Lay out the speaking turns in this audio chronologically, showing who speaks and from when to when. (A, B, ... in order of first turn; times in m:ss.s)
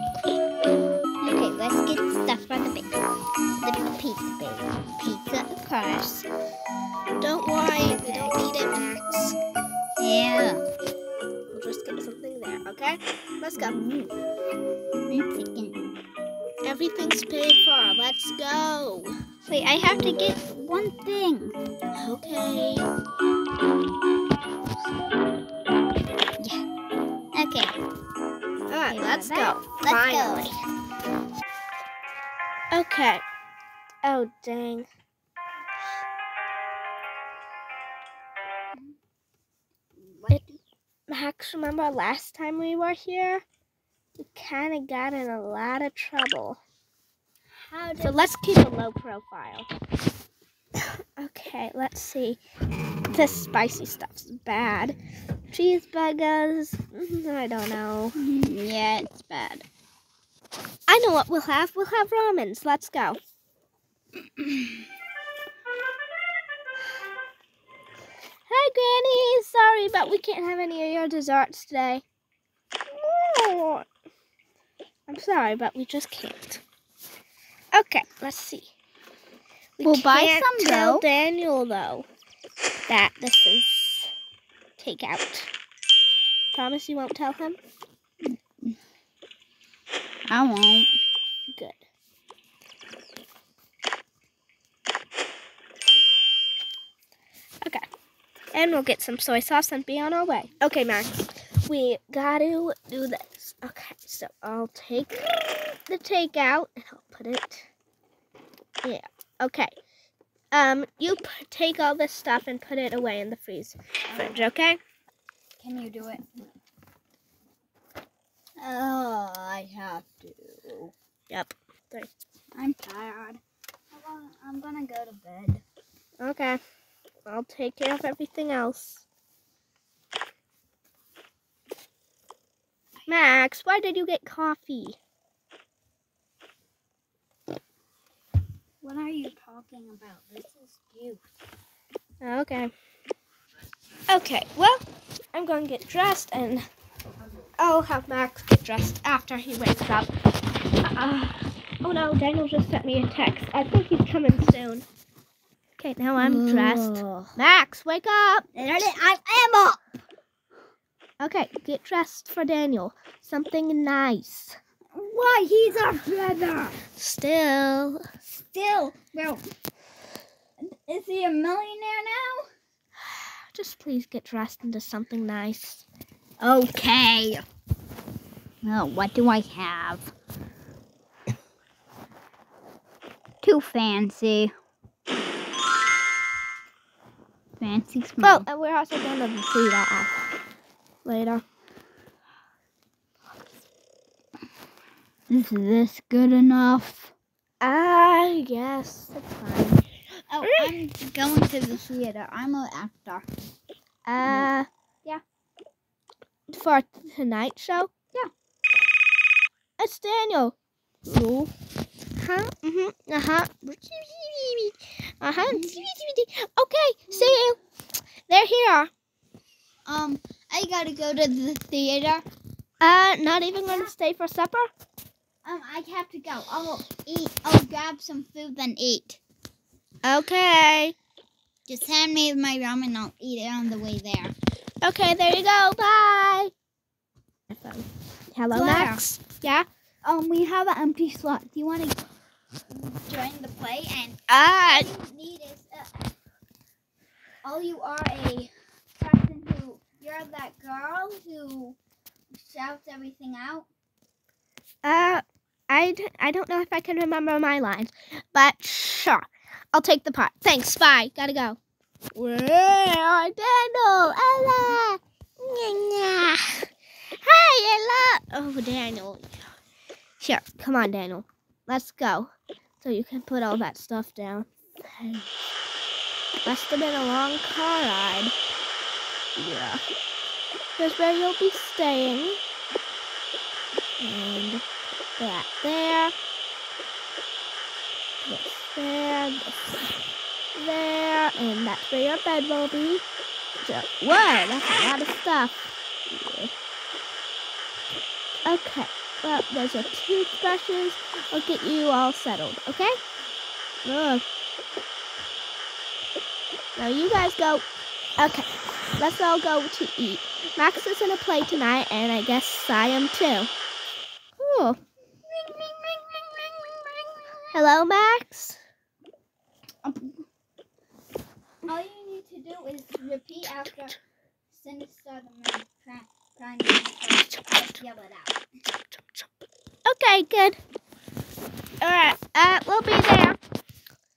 0:01.2-0:03.0 A
0:03.6-0:06.3 A
0:07.2-0:09.4 B
0:08.0-0:08.3 A
0:10.0-0:10.6 A
0:11.5-0:13.8 B
0:13.6-0:14.1 A
0:15.1-0:15.8 A
0:16.6-0:19.1 B
0:19.5-0:21.6 A
0:21.9-0:22.9 B
0:27.3-0:27.8 A
0:28.7-0:30.6 B
0:28.8-0:30.5 A
0:32.7-0:33.2 B
0:34.0-0:34.9 B
0:40.0-0:40.6 A
0:41.1-0:43.4 B
0:44.2-0:46.6 B
0:47.6-0:48.3 A
0:48.0-0:49.7 B
0:50.8-0:52.4 B
0:53.1-0:54.9 B
0:55.5-0:58.2 B
0:58.2-0:59.6 A
1:00.9-1:03.2 B
1:08.5-1:12.0 B
1:12.9-1:13.8 B
1:15.1-1:16.6 B
1:17.7-1:18.7 B
1:19.8-1:22.1 B
1:19.8-1:21.0 A
1:22.9-1:24.1 B
1:24.8-1:25.5 B
1:26.5-1:27.6 B
1:30.3-1:31.0 A
1:31.5-1:31.8 B
1:38.5-1:47.7 B
1:48.8-1:49.7 B
1:50.5-1:54.8 B
1:54.1-1:54.5 A
1:55.6-1:56.3 A
1:58.6-2:00.9 A
2:01.3-2:02.1 B
2:02.5-2:03.4 A
2:03.9-2:05.6 A
2:06.2-2:06.6 B
2:07.2-2:09.0 B
2:13.1-2:15.0 B
2:18.8-2:21.2 A
2:22.2-2:22.7 B
2:24.1-2:26.7 B
2:27.6-2:30.1 B
2:30.8-2:34.8 B
2:35.8-2:38.5 B
2:36.2-2:37.3 A
2:38.5-2:39.8 A
2:41.2-2:44.6 B
2:44.9-2:46.8 A
2:46.9-2:48.2 B
2:48.4-2:49.4 A
2:50.6-2:52.5 A
2:53.0-2:55.8 B
2:56.4-2:57.4 A
2:58.6-3:00.1 A
3:03.4-3:04.5 A
3:07.6-3:08.5 A
3:08.2-3:10.2 B
3:11.0-3:11.4 B
3:15.3-3:17.1 A
3:17.6-3:19.8 B
3:20.3-3:23.3 A
3:20.4-3:20.7 B
3:24.0-3:24.7 B
3:24.2-3:24.5 A
3:26.5-3:27.9 B
3:29.8-3:31.5 B
3:32.2-3:37.6 B
3:35.4-3:35.8 A
3:37.1-3:37.4 A
3:38.3-3:38.9 B
3:39.8-3:42.2 A
3:42.8-3:44.7 B
3:43.6-3:43.9 A
3:45.4-3:49.2 A
3:50.0-3:50.9 B
3:51.7-3:54.3 A
3:54.8-3:56.5 B
3:57.5-3:59.6 B
3:58.5-3:59.0 A
4:00.0-4:02.0 A
4:02.7-4:06.1 A
4:04.3-4:04.9 B
4:07.4-4:11.8 A
4:12.4-4:13.7 A
4:14.8-4:21.6 B
4:22.1-4:29.3 B
4:30.2-4:35.2 B
4:36.4-4:38.3 B
4:39.4-4:39.8 B
4:40.8-4:42.4 B
4:44.0-4:44.6 B
4:45.2-4:46.1 B
4:48.2-4:49.8 B
4:50.5-4:53.0 B
4:53.6-4:56.5 B
4:58.4-5:03.0 B
5:03.8-5:04.2 B
5:06.8-5:07.6 B
5:08.2-5:13.5 B
5:14.4-5:14.8 B
5:15.2-5:17.7 A
5:17.5-5:18.6 B
5:19.8-5:20.1 A
5:21.6-5:24.0 A
5:24.5-5:28.4 A
5:29.8-5:30.6 B
5:31.8-5:33.4 B